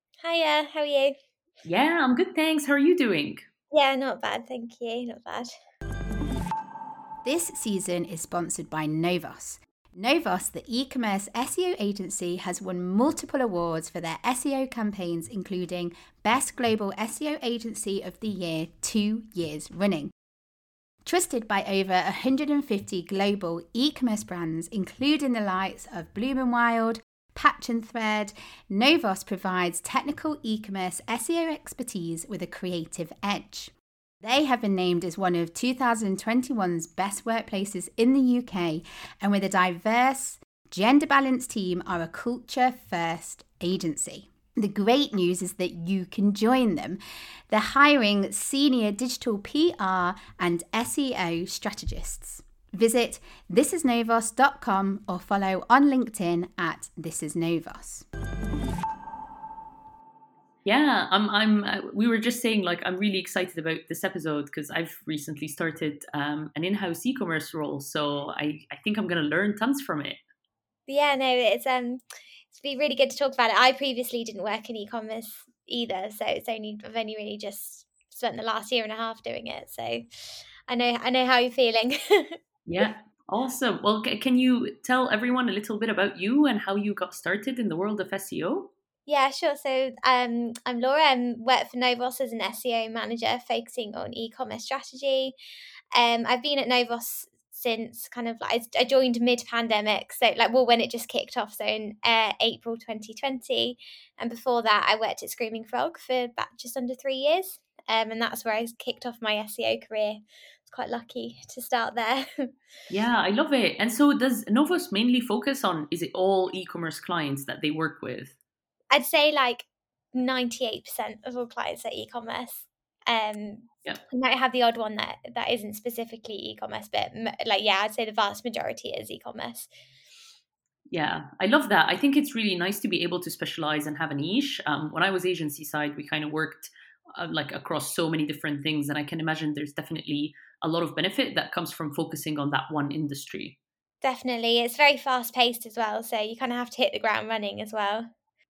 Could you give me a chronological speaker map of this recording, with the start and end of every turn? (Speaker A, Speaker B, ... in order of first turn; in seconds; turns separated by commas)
Speaker A: 0.2-1.1, Speaker B: 1.6-3.5, Speaker A: 3.7-5.5, Speaker C: 7.2-20.1, Speaker C: 21.1-47.0, Speaker C: 47.5-58.1, Speaker B: 60.6-70.2, Speaker A: 70.9-80.0, Speaker A: 80.7-82.4, Speaker B: 82.7-88.7, Speaker A: 89.1-95.3, Speaker A: 95.9-112.5, Speaker B: 112.9-118.4, Speaker A: 118.9-129.7, Speaker B: 130.9-143.6, Speaker A: 144.0-148.1